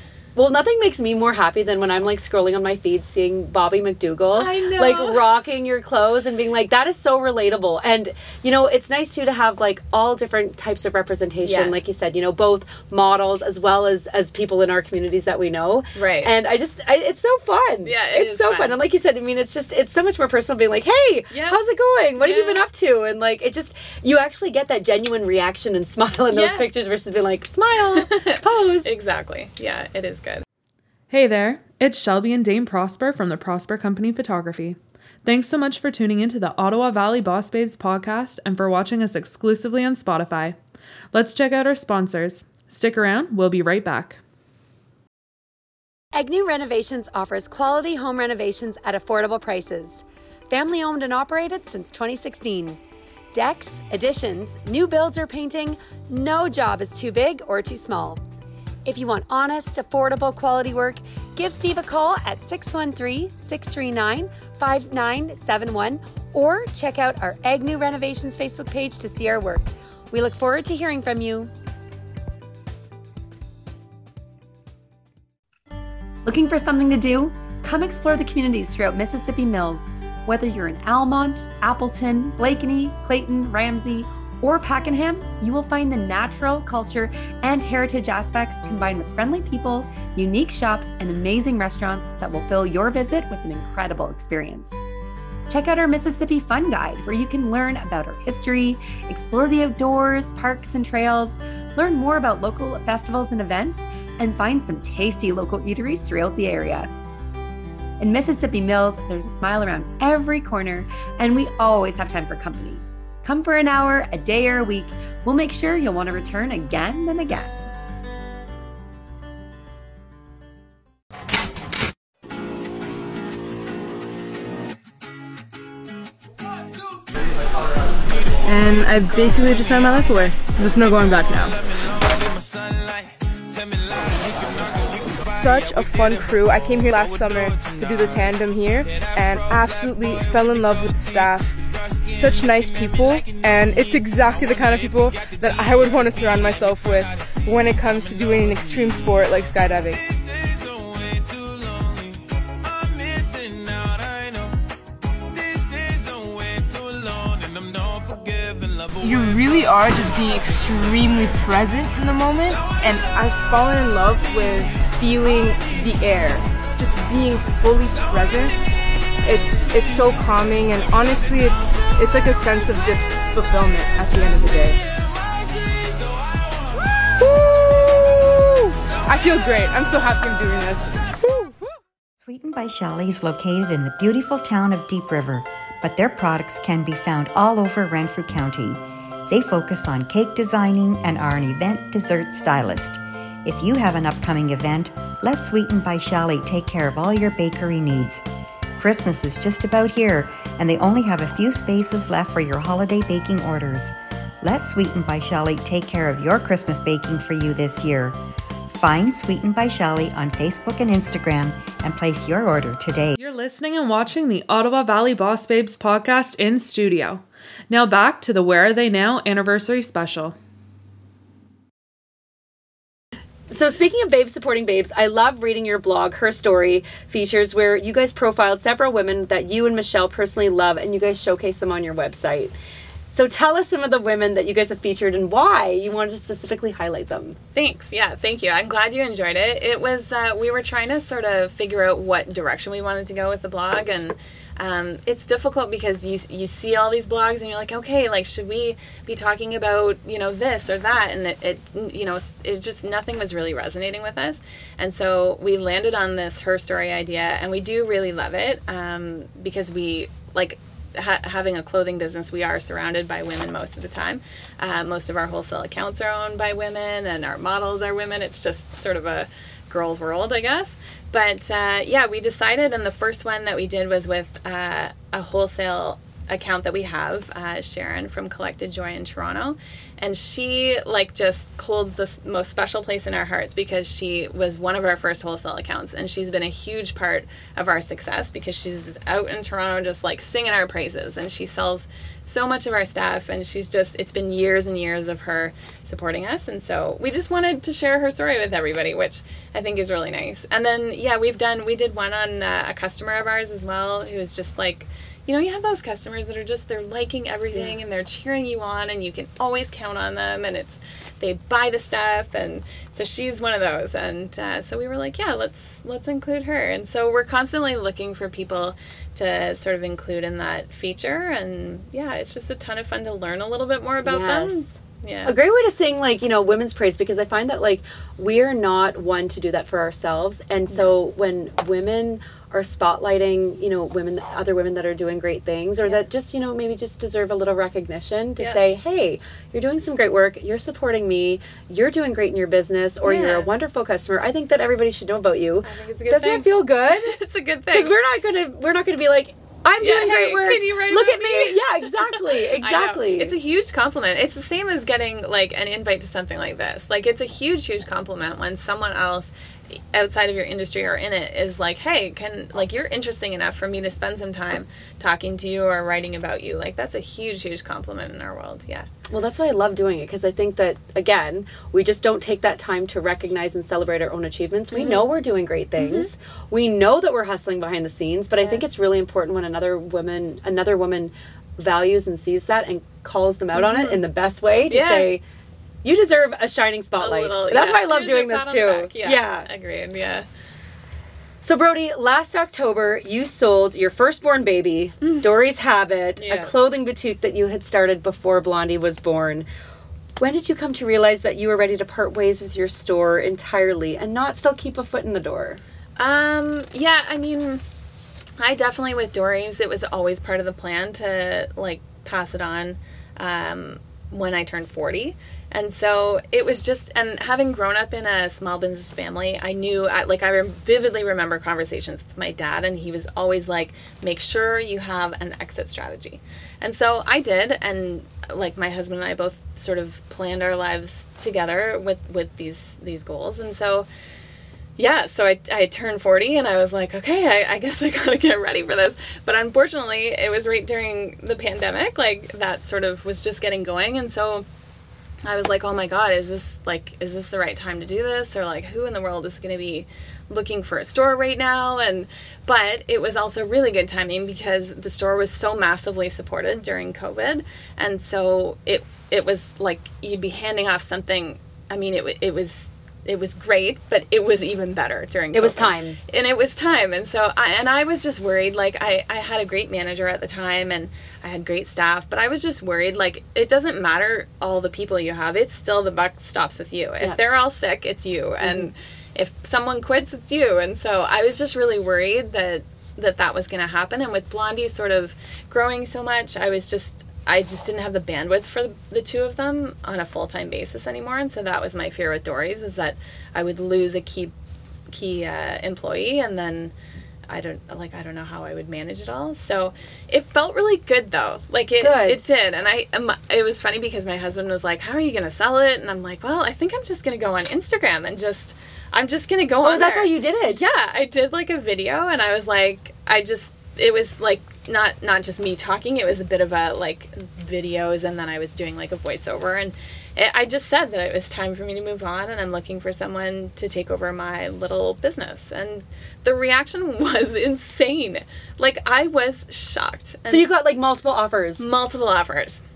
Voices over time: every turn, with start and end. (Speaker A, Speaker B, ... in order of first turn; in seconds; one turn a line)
Speaker A: 0.4-28.9
Speaker B: 4.3-5.2
Speaker B: 11.4-11.8
Speaker B: 15.9-16.3
Speaker B: 17.8-18.8
Speaker B: 21.3-21.6
Speaker B: 22.2-22.6
Speaker B: 26.3-26.7
Speaker B: 27.9-30.4
Speaker C: 31.1-40.6
Speaker C: 41.1-44.2
Speaker A: 46.1-52.8
Speaker A: 53.3-58.2
Speaker A: 58.8-71.5
Speaker A: 76.2-94.8
Speaker A: 95.5-106.9
Speaker A: 108.0-117.6
Speaker D: 128.4-131.6
Speaker D: 135.2-141.5
Speaker D: 142.0-150.0
Speaker D: 159.0-168.6
Speaker D: 169.2-174.8
Speaker D: 177.2-181.5
Speaker E: 182.2-198.2
Speaker E: 198.8-208.2
Speaker E: 208.7-213.1
Speaker C: 213.2-220.3
Speaker A: 223.5-232.5
Speaker A: 233.1-237.4
Speaker B: 237.5-325.3
Speaker A: 307.5-307.8
Speaker A: 324.0-324.7
Speaker A: 325.2-347.1
Speaker B: 343.0-343.5
Speaker B: 345.6-347.9
Speaker A: 347.7-353.3
Speaker B: 349.8-368.9
Speaker A: 369.1-385.2
Speaker B: 374.7-375.1
Speaker B: 375.8-376.1
Speaker B: 383.5-384.0
Speaker B: 384.7-385.1
Speaker A: 385.8-389.5
Speaker B: 387.0-390.3
Speaker A: 391.4-399.5
Speaker B: 395.0-395.3
Speaker B: 396.2-396.5
Speaker A: 400.2-405.6
Speaker B: 406.0-407.6
Speaker B: 408.4-433.9
Speaker B: 434.8-444.4
Speaker B: 445.2-494.3
Speaker A: 465.3-466.0
Speaker A: 478.4-478.7
Speaker B: 494.9-496.7
Speaker B: 497.3-530.5
Speaker A: 501.8-502.2
Speaker A: 509.6-510.6
Speaker A: 530.3-531.6
Speaker B: 531.6-532.6